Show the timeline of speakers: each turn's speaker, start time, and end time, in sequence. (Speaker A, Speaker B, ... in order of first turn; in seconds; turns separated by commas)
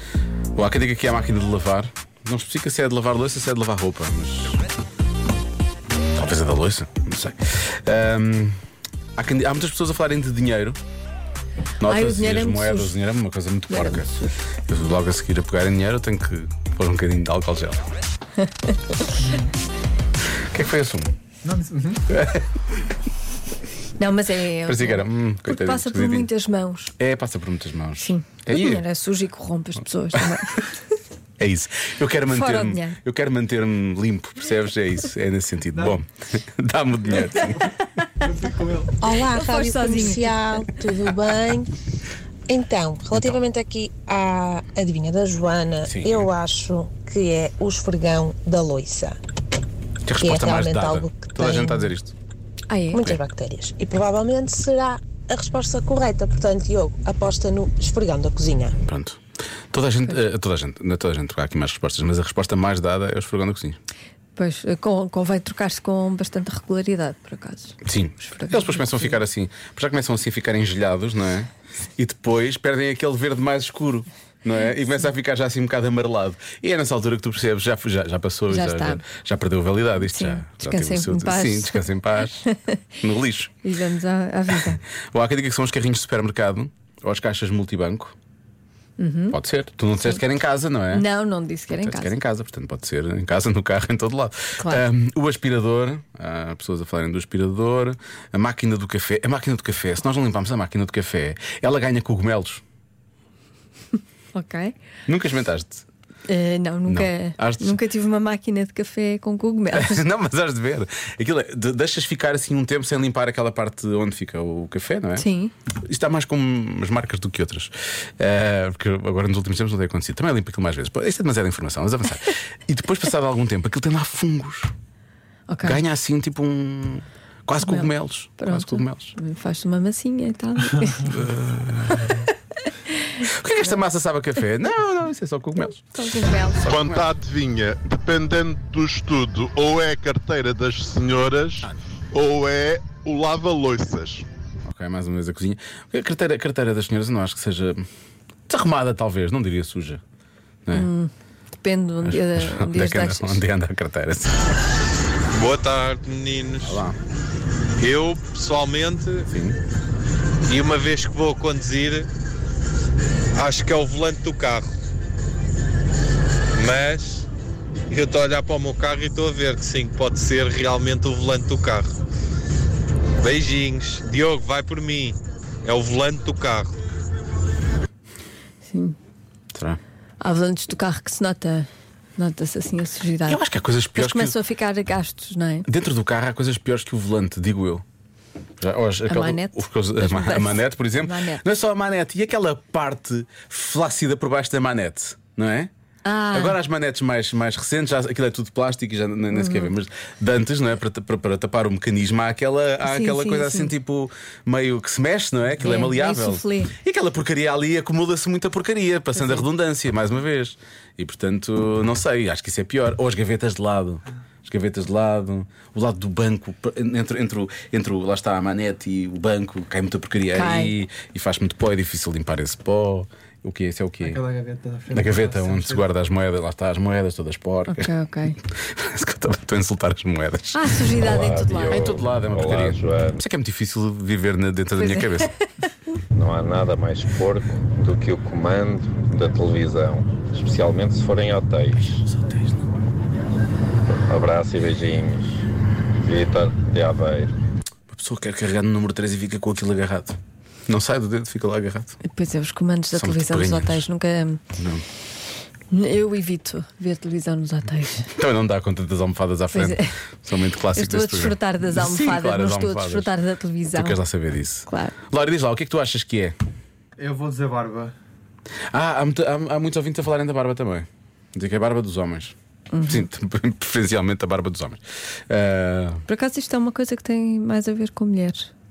Speaker A: 0.5-4.6, Speaker A: 6.1-8.6, Speaker A: 9.2-10.8, Speaker A: 11.8-14.1, Speaker B: 11.8-13.0, Speaker B: 13.7-14.4, Speaker A: 14.6-17.9, Speaker B: 18.4-19.2, Speaker C: 19.2-19.5, Speaker A: 20.3-21.1, Speaker C: 21.4-22.0, Speaker A: 22.1-22.5, Speaker B: 24.0-26.9, Speaker A: 24.6-26.3, Speaker A: 27.0-28.8, Speaker B: 28.0-30.8, Speaker A: 30.1-30.4, Speaker A: 31.4-37.7, Speaker B: 32.3-33.0, Speaker C: 38.2-38.9, Speaker D: 39.0-41.7, Speaker B: 39.1-40.7, Speaker D: 42.5-49.2, Speaker A: 45.9-46.3, Speaker A: 50.0-52.1, Speaker D: 50.1-51.9, Speaker B: 52.7-53.0, Speaker D: 52.9-58.8, Speaker A: 52.9-53.2, Speaker A: 58.9-59.2, Speaker A: 59.7-63.8, Speaker B: 64.3-69.2, Speaker A: 67.8-82.4, Speaker B: 78.5-79.0, Speaker B: 80.0-81.9, Speaker B: 82.4-82.8, Speaker A: 83.0-83.5, Speaker B: 83.6-84.8, Speaker A: 85.1-88.1, Speaker B: 89.0-89.4, Speaker A: 89.3-91.0, Speaker B: 90.9-92.2, Speaker A: 91.8-102.6, Speaker B: 94.6-94.8, Speaker B: 104.3-104.8, Speaker A: 105.1-105.8, Speaker B: 106.3-110.0, Speaker A: 106.9-107.8, Speaker A: 109.7-115.2, Speaker B: 115.2-115.5, Speaker A: 115.8-124.7, Speaker B: 125.5-125.8, Speaker A: 125.6-129.1, Speaker B: 127.6-131.2, Speaker A: 131.1-132.2, Speaker B: 132.0-133.7, Speaker A: 133.3-137.2, Speaker B: 135.9-136.6, Speaker E: 136.7-144.3, Speaker A: 144.6-147.8, Speaker A: 148.5-150.0, Speaker B: 150.7-153.4, Speaker A: 152.0-154.4, Speaker F: 155.3-156.8, Speaker A: 156.6-156.9, Speaker F: 157.8-159.3, Speaker A: 159.3-159.6, Speaker F: 160.4-162.1, Speaker F: 163.3-164.7, Speaker F: 166.5-167.3, Speaker F: 167.9-171.9, Speaker F: 173.2-176.8, Speaker B: 178.7-179.0, Speaker A: 179.5-179.8, Speaker B: 180.2-183.4, Speaker A: 183.3-184.3, Speaker B: 183.9-185.7, Speaker A: 185.7-187.8, Speaker A: 188.6-195.7, Speaker B: 189.1-191.4, Speaker B: 196.0-196.6, Speaker A: 196.3-224.2, Speaker B: 199.3-199.7, Speaker B: 202.8-203.7, Speaker B: 205.6-206.7, Speaker B: 220.3-220.7, Speaker C: 224.0-225.9, Speaker A: 224.9-227.9, Speaker B: 227.7-228.4, Speaker A: 228.6-230.6, Speaker B: 230.5-231.9, Speaker G: 231.0-233.2, Speaker A: 231.7-235.3, Speaker B: 234.8-235.4, Speaker G: 236.1-242.0, Speaker A: 242.0-242.6, Speaker G: 244.1-245.4, Speaker G: 246.0-247.3, Speaker A: 247.9-251.9, Speaker B: 252.0-254.4, Speaker A: 252.9-253.8, Speaker A: 254.6-254.8, Speaker B: 255.7-258.1, Speaker A: 258.1-263.1, Speaker B: 259.5-259.9, Speaker B: 260.7-264.0, Speaker A: 263.7-266.3, Speaker B: 264.7-265.0, Speaker C: 267.0-267.9, Speaker A: 268.7-276.0, Speaker B: 272.7-273.1, Speaker B: 276.1-278.5